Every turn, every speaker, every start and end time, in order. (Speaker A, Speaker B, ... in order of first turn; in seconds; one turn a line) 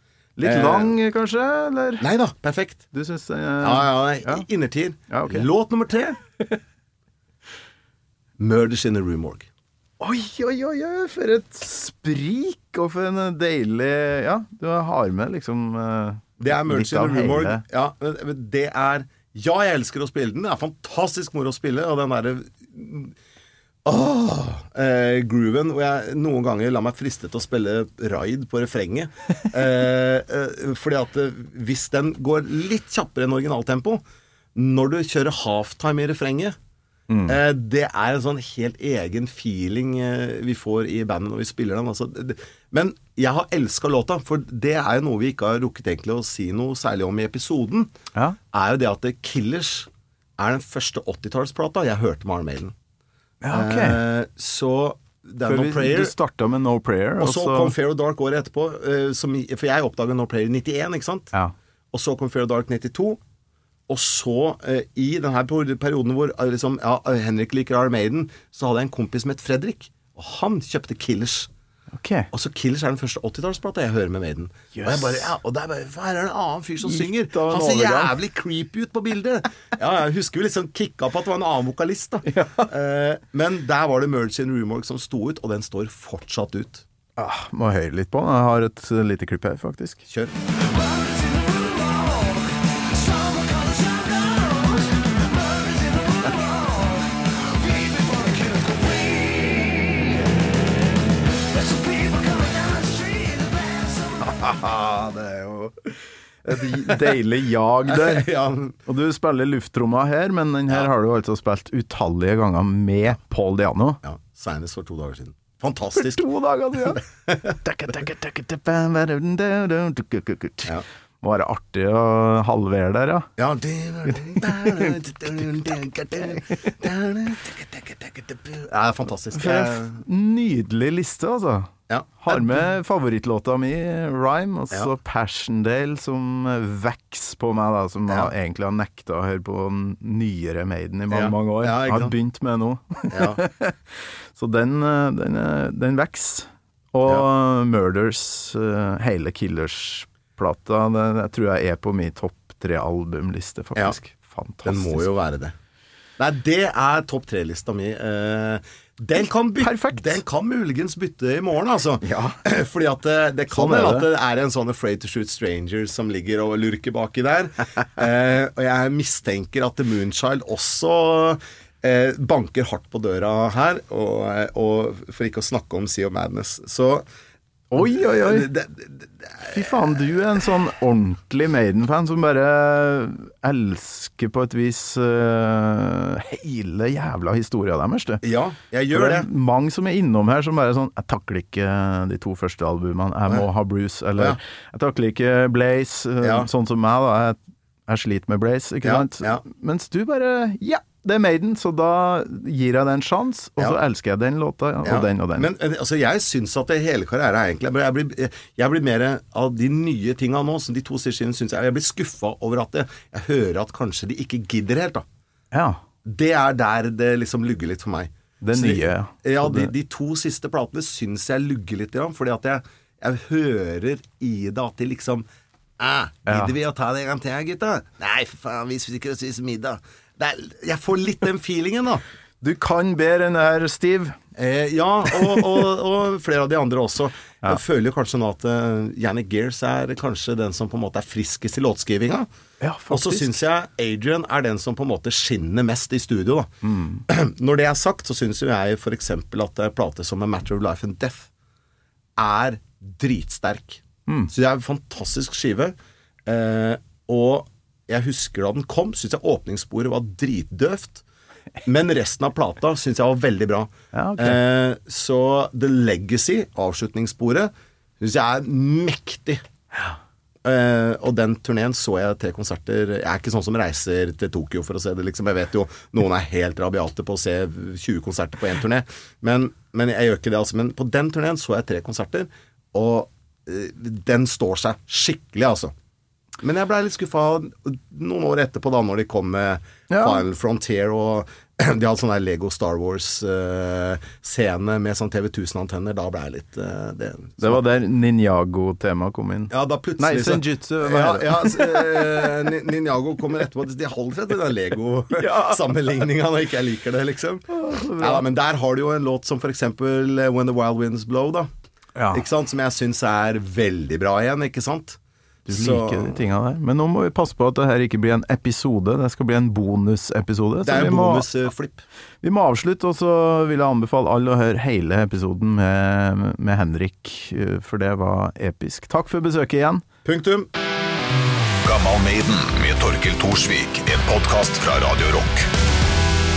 Speaker A: 0.4-2.1
Speaker B: 0.4-1.0
Speaker B: 2.0-2.9
Speaker A: 2.9-4.5
Speaker B: 3.6-6.2
Speaker A: 5.1-5.5
Speaker B: 8.4-9.5
Speaker A: 10.0-17.6
Speaker B: 16.4-23.1
Speaker B: 23.9-34.0
Speaker B: 34.5-36.5
Speaker A: 37.1-37.4
Speaker B: 37.2-47.9
Speaker B: 48.5-52.7
Speaker A: 53.4-54.0
Speaker B: 53.5-56.1
Speaker A: 55.4-57.8
Speaker B: 57.2-61.3
Speaker B: 61.9-63.2
Speaker B: 63.9-71.5
Speaker A: 71.9-72.3
Speaker B: 72.3-86.8
Speaker A: 74.7-75.3
Speaker A: 76.8-78.2
Speaker A: 82.3-82.7
Speaker A: 87.2-90.0
Speaker B: 90.1-90.3
Speaker A: 91.4-91.8
Speaker B: 104.2-105.7
Speaker A: 106.5-108.3
Speaker B: 106.5-106.9
Speaker B: 107.9-108.8
Speaker A: 108.9-114.0
Speaker B: 114.0-116.2
Speaker A: 116.0-123.3
Speaker B: 123.4-130.0
Speaker A: 124.4-124.9
Speaker A: 129.3-143.8
Speaker B: 131.9-132.7
Speaker B: 141.1-142.2
Speaker B: 143.1-143.4
Speaker A: 144.3-155.1
Speaker B: 154.7-155.5
Speaker B: 156.2-177.1
Speaker A: 159.6-160.2
Speaker A: 162.0-162.4
Speaker A: 163.5-164.1
Speaker A: 177.7-178.5
Speaker B: 177.8-179.7
Speaker A: 179.4-188.2
Speaker B: 188.2-189.3
Speaker A: 188.9-205.5
Speaker B: 196.2-196.5
Speaker B: 198.8-199.4
Speaker B: 204.8-215.0
Speaker A: 215.5-215.8
Speaker B: 216.1-225.3
Speaker A: 218.4-219.7
Speaker B: 225.8-232.0
Speaker A: 226.3-226.5
Speaker A: 232.4-234.2
Speaker B: 234.3-242.3
Speaker A: 242.6-243.4
Speaker B: 242.9-246.5
Speaker A: 246.6-247.0
Speaker B: 247.1-251.3
Speaker B: 252.2-255.8
Speaker B: 256.3-261.0
Speaker B: 261.6-269.4
Speaker A: 263.9-264.4
Speaker B: 270.4-285.7
Speaker B: 286.4-297.6
Speaker A: 289.9-290.2
Speaker A: 297.4-302.2
Speaker B: 299.5-311.5
Speaker A: 305.2-305.9
Speaker A: 307.5-308.2
Speaker A: 312.0-312.2
Speaker B: 312.1-316.2
Speaker A: 315.5-321.3
Speaker B: 320.6-321.8
Speaker A: 322.2-329.9
Speaker B: 330.1-330.5
Speaker C: 331.6-335.5